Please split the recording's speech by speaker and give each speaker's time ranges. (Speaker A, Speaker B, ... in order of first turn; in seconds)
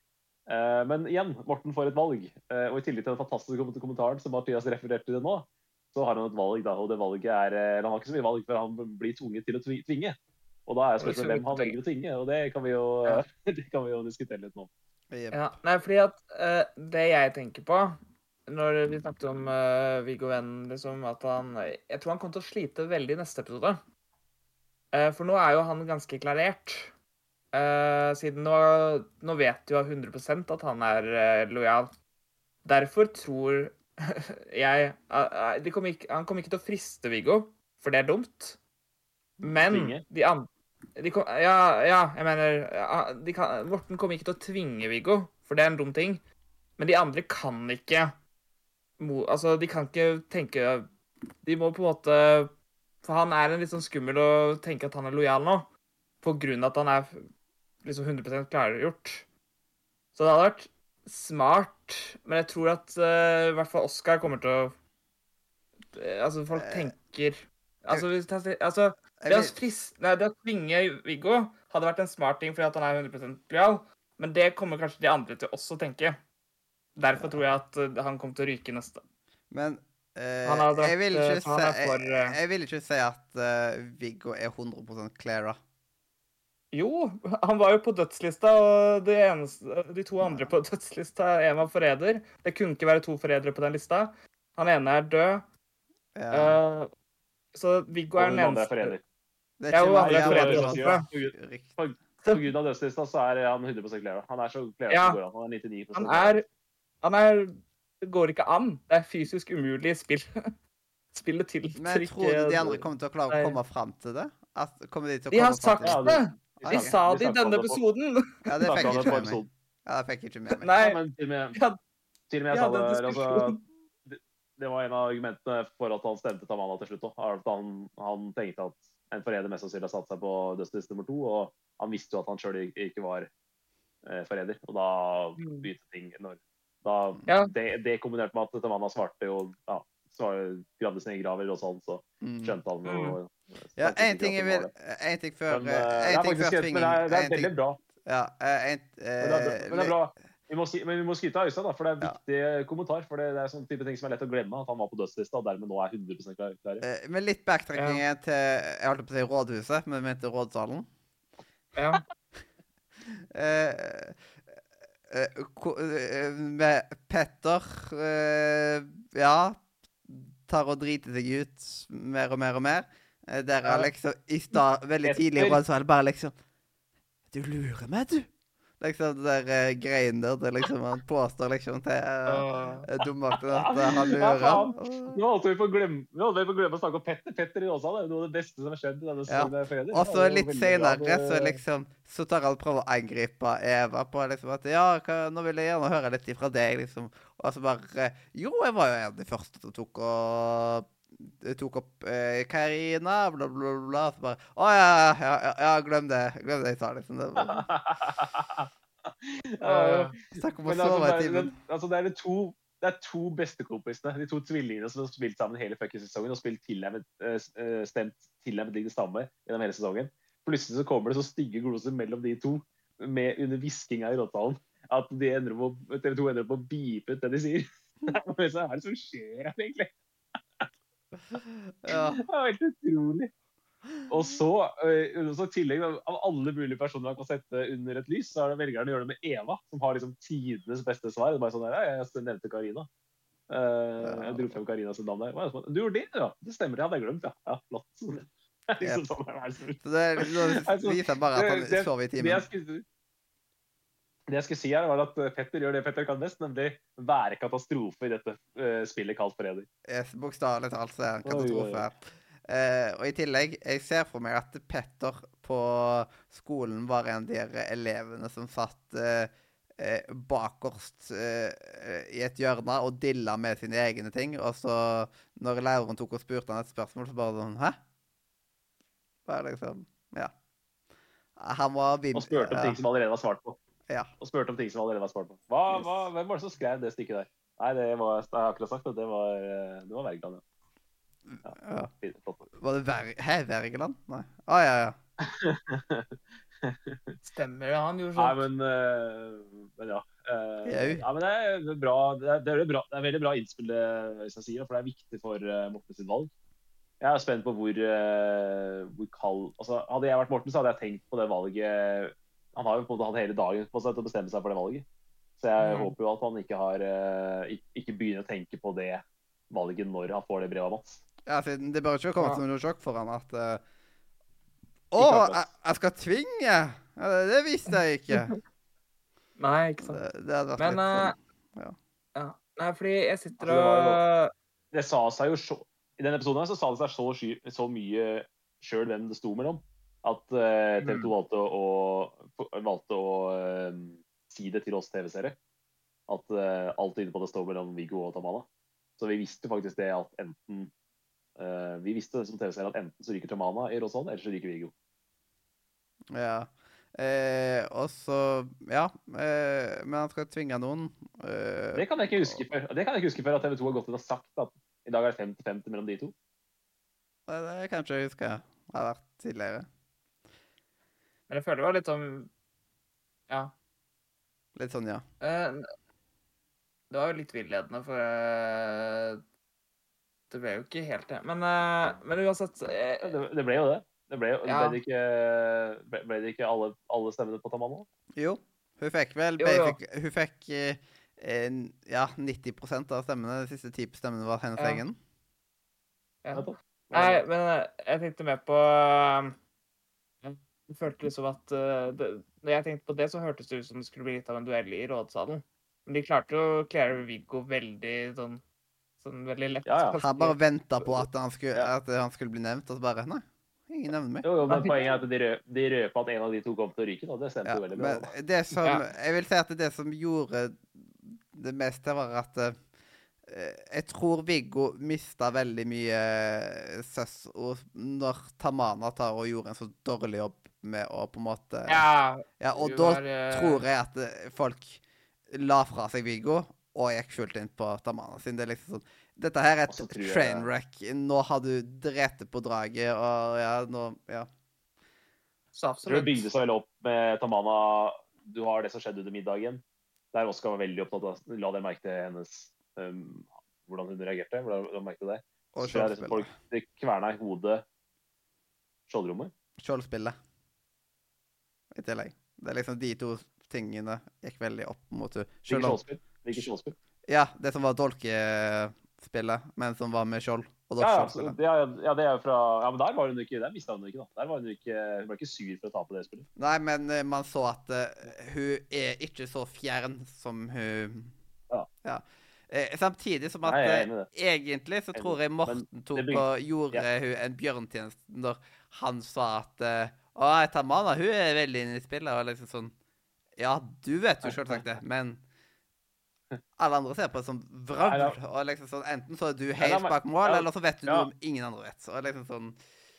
Speaker A: 0.5-10.2, 10.7-14.7, 39.7-40.0, 98.2-99.0, 99.9-106.3, 115.8-117.8, 118.7-119.5, 120.8-121.6, 122.3-133.3, 134.0-144.7, 145.5-147.8, 149.2-156.8, 175.0-175.6, 183.5-191.6, 207.4-210.1, 210.6-229.9, 231.9-233.3, 234.1-242.9, 243.5-252.8, 254.3-259.7, 261.2-261.9, 282.1-283.6, 284.2-290.4, 291.4-292.5, 295.2-297.2, 298.1-306.3, 307.0-314.9, 315.4-321.0, 325.0-325.5, 333.4-334.0, 334.7-345.4, 346.1-348.5, 349.0-350.7, 351.4-354.7, 361.7-366.1, 383.0-387.9, 396.3-397.2, 409.6-410.0, 410.8-411.7, 414.2-418.1, 439.7-440.5, 445.9-449.6, 450.1-457.6, 458.9-459.3, 465.5-466.8, 470.8-476.3, 483.4-484.1, 484.9-486.9, 494.2-494.8, 497.8-498.2, 499.6-501.1
Speaker B: 11.0-11.8, 15.3-23.8, 24.9-26.9, 27.5-31.9, 32.6-38.6, 39.4-46.2, 46.8-48.1, 49.0-50.9, 51.4-52.5, 53.0-55.7, 56.2-57.2, 57.8-59.3, 60.1-64.7, 65.9-76.2, 77.0-79.0, 80.5-82.4, 86.7-95.5, 96.3-96.9, 97.5-99.0, 99.7-101.0, 102.2-102.5, 104.9-105.2, 106.0-106.4, 107.0-110.3, 111.1-113.6, 115.3-119.0, 120.5-121.0, 122.5-123.6, 135.4-135.7, 137.3-137.5, 142.8-143.2, 157.7-158.0, 161.7-162.0, 173.6-173.9, 182.3-182.9, 209.6-210.1, 297.2-298.5, 315.6-315.9, 327.7-328.4, 329.4-330.0, 330.6-331.1, 332.1-334.3, 340.8-341.1, 371.3-372.3, 373.3-373.5, 375.2-375.6, 376.9-379.2, 380.3-383.1, 384.4-384.8, 389.4-389.8, 394.6-394.8, 396.2-399.4, 400.2-408.4, 409.0-410.4, 414.5-415.0, 431.7-433.6, 445.5-446.3
Speaker C: 15.1-15.5, 66.5-66.9, 69.2-69.5, 77.1-77.4, 79.5-85.6, 90.2-90.5, 96.2-96.6, 99.6-101.8, 111.8-116.9, 118.4-120.7, 142.2-142.6, 143.8-149.9, 156.8-160.9, 163.1-164.2, 165.1-176.3, 177.3-178.3, 178.8-185.2, 189.3-207.7, 210.3-211.5, 231.3-232.2, 244.0-244.6, 248.8-249.0, 249.8-252.4, 259.9-277.8, 279.2-280.3, 281.4-282.8, 285.7-286.0, 291.3-291.9, 292.5-294.9, 300.6-301.0, 321.2-323.6, 324.9-328.4, 329.8-331.8, 356.1-362.4, 367.3-369.7, 374.6-375.0, 388.1-395.0, 410.0-414.3, 417.4-422.6, 423.2-431.8, 432.4-444.3, 455.5-456.3, 459.6-460.1, 461.7-465.8, 467.1-471.4, 476.4-481.1, 481.8-492.7, 493.4-495.2, 496.6-502.6